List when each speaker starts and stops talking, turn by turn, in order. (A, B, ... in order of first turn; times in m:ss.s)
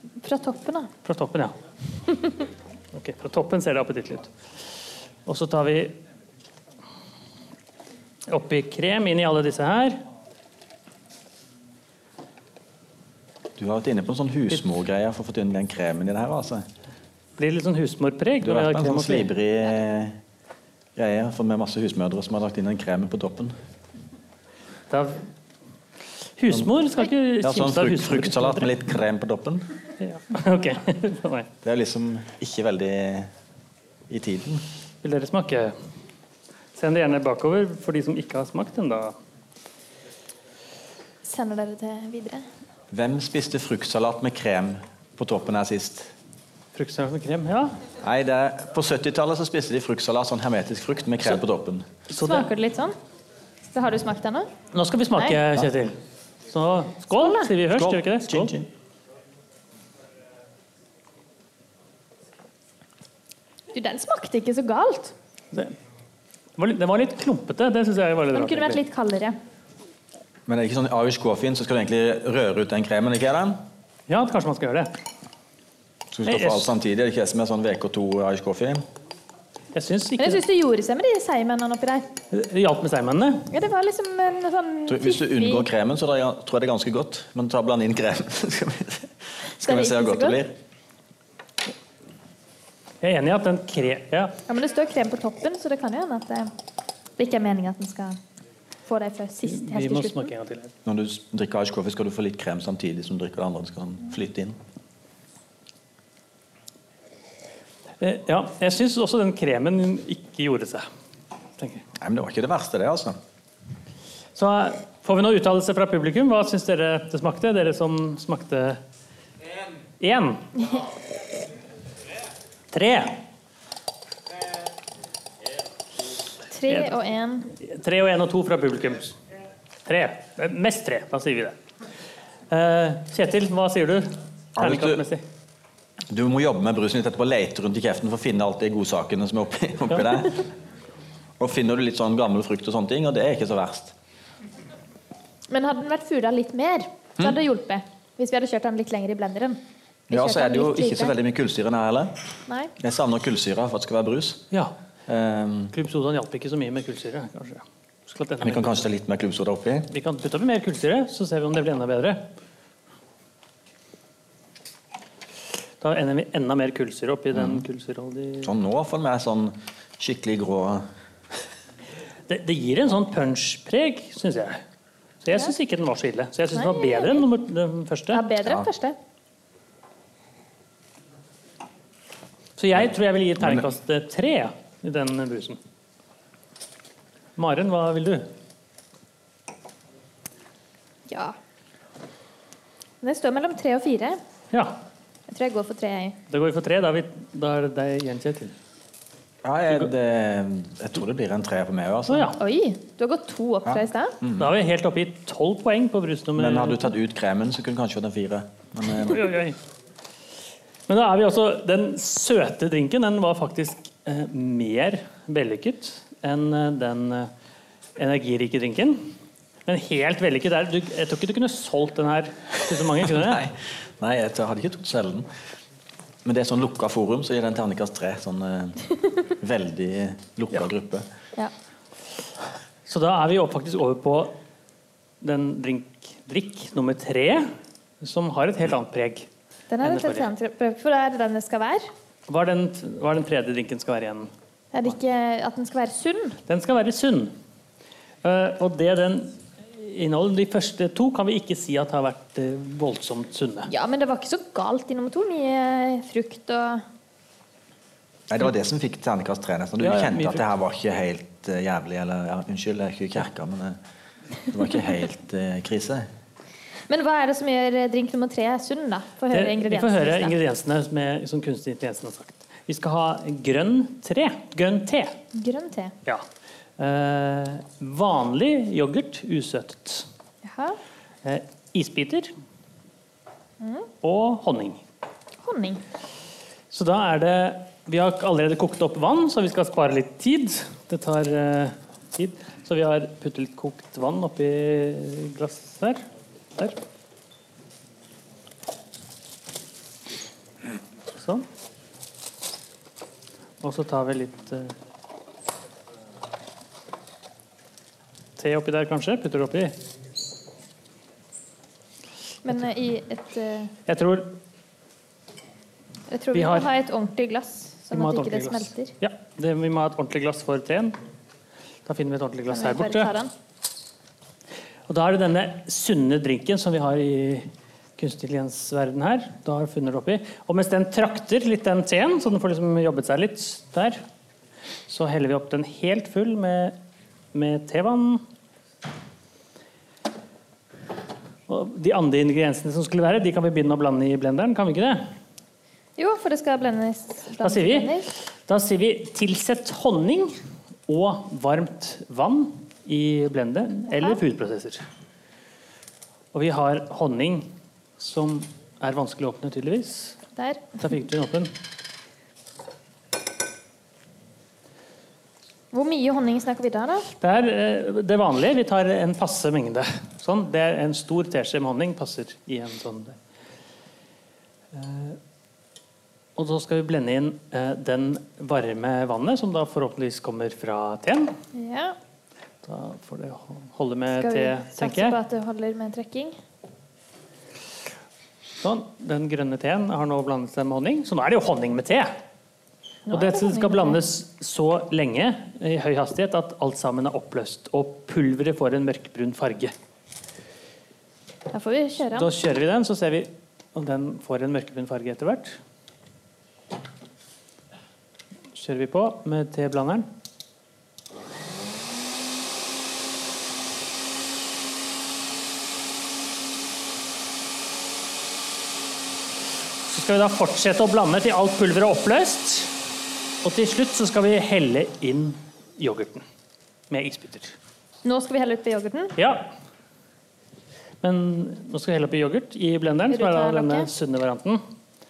0:00.2-0:00.9 A
0:01.0-0:01.5 B
0:02.9-0:04.3 B
0:05.2-0:06.0 B
0:08.3-0:10.0 B
0:13.6-0:16.6 C
0:17.4-0:19.3 B
0:18.4-0:20.2 C
0:21.0-0:23.5 C
0:24.9-0:25.2 B
0:26.4-0:28.7 B
0:27.4-0:29.7 C
0:30.0-0:31.5 B
0:31.6-0:33.3 C
0:34.1-0:34.6 C
0:35.0-0:35.7 B
0:36.7-0:39.1 B
0:41.2-0:42.4 A
0:42.9-0:46.1 C
0:46.7-0:47.8 B
0:48.0-0:51.8 C
0:52.1-0:52.5 B
0:52.2-0:52.9 A
0:53.7-0:54.5 A
0:54.7-0:56.0 B
0:56.5-0:58.5 B
0:57.1-0:57.5 A
0:57.7-0:58.7 C
1:03.7-1:05.1 A
1:06.6-1:08.8 B
1:08.3-1:09.4 A
1:10.5-1:13.6 C
1:14.1-1:14.9 B
1:16.1-1:18.8 C
1:16.2-1:16.7 B
1:19.7-1:20.4 B
1:20.2-1:22.1 A
1:22.3-1:23.5 B
1:23.5-1:25.6 A
1:24.9-1:30.5 C
1:29.6-1:30.4 A
1:33.0-1:34.3 B
1:34.5-1:36.5 A
1:37.2-1:38.2 A
1:38.8-1:40.3 A
1:39.5-1:40.7 B
1:40.8-1:44.6 C
1:48.0-1:50.8 B
1:51.6-1:51.8 B
1:52.0-1:53.2 C
1:54.4-1:58.8 B
2:00.0-2:00.5 B
2:02.7-2:03.2 B
2:06.5-2:07.5 A
2:07.6-2:09.2 B
2:09.8-2:11.6 B
2:12.5-2:15.2 B
2:14.6-2:15.0 C
2:16.1-2:20.5 C
2:21.4-2:23.9 C
2:25.5-2:29.6 A
2:30.1-2:32.1 C
2:30.1-2:31.1 A
2:32.5-2:32.7 A
2:32.8-2:34.4 C
2:35.1-2:35.7 C
2:35.7-2:38.8 B
2:38.4-2:39.9 C
2:39.9-2:42.2 B
2:45.8-2:48.5 B
2:47.3-2:47.6 C
2:48.4-2:50.8 C
2:52.3-2:54.6 B
2:55.2-2:58.2 B
2:56.5-2:57.2 A
2:58.1-2:59.0 A
3:02.6-3:05.6 B
3:03.4-3:03.6 C
3:07.4-3:08.3 B
3:11.1-3:11.4 A
3:13.0-3:14.2 A
3:14.5-3:14.8 B
3:15.3-3:16.2 A
3:16.3-3:18.5 B
3:19.4-3:22.4 C
3:22.1-3:22.4 B
3:22.4-3:24.2 A
3:23.6-3:24.5 C
3:24.4-3:26.9 B
3:26.4-3:29.3 C
3:29.0-3:29.6 B
3:30.9-3:37.3 B
3:38.0-3:39.1 B
3:39.6-3:43.4 B
3:43.0-3:45.3 C
3:46.2-3:51.1 C
3:52.8-3:54.4 B
3:55.2-3:59.3 B
3:59.7-4:01.9 A
3:59.8-4:00.3 B
4:02.3-4:04.3 B
4:04.7-4:06.4 A
4:06.5-4:07.3 B
4:08.2-4:13.7 B
4:13.7-4:16.8 A
4:18.3-4:23.8 C
4:19.8-4:20.4 B
4:24.5-4:26.1 C
4:26.9-4:30.4 A
4:29.3-4:35.2 B
4:35.3-4:35.9 A
4:36.8-4:40.1 B
4:40.4-4:40.8 A
4:41.2-4:42.3 B
4:43.6-4:43.9 A
4:44.0-4:44.8 B
4:45.4-4:45.8 A
4:46.7-4:56.0 B
5:01.1-5:01.4 B
5:03.6-5:04.7 B
5:08.4-5:09.8 B
5:12.4-5:13.7 A
5:13.9-5:14.4 B
5:16.1-5:18.9 A
5:16.3-5:16.7 B
5:17.9-5:21.0 B
5:21.8-5:23.1 B
5:22.5-5:23.3 A
5:24.9-5:34.0 B
5:34.9-5:36.8 B
5:37.3-5:38.2 B
5:41.5-5:45.1 B
5:46.0-5:48.1 A
5:47.4-5:50.3 B
5:50.9-5:54.8 B
5:56.3-6:00.2 B
6:00.4-6:00.8 A
6:00.8-6:01.5 B
6:05.7-6:07.1 A
6:07.2-6:13.2 B
6:14.7-6:15.2 B
6:16.4-6:21.3 B
6:21.5-6:22.0 A
6:22.6-6:25.2 B
6:24.2-6:26.4 A
6:28.6-6:32.2 B
6:33.1-6:34.0 A
6:33.1-6:39.7 B
6:41.5-6:42.3 A
6:42.1-6:45.6 B
6:48.5-6:50.1 B
6:59.9-7:02.7 B
7:03.4-7:06.2 B
7:06.9-7:07.6 B
7:08.0-7:09.2 A
7:09.2-7:09.5 B
7:11.0-7:14.6 B
7:13.1-7:13.9 A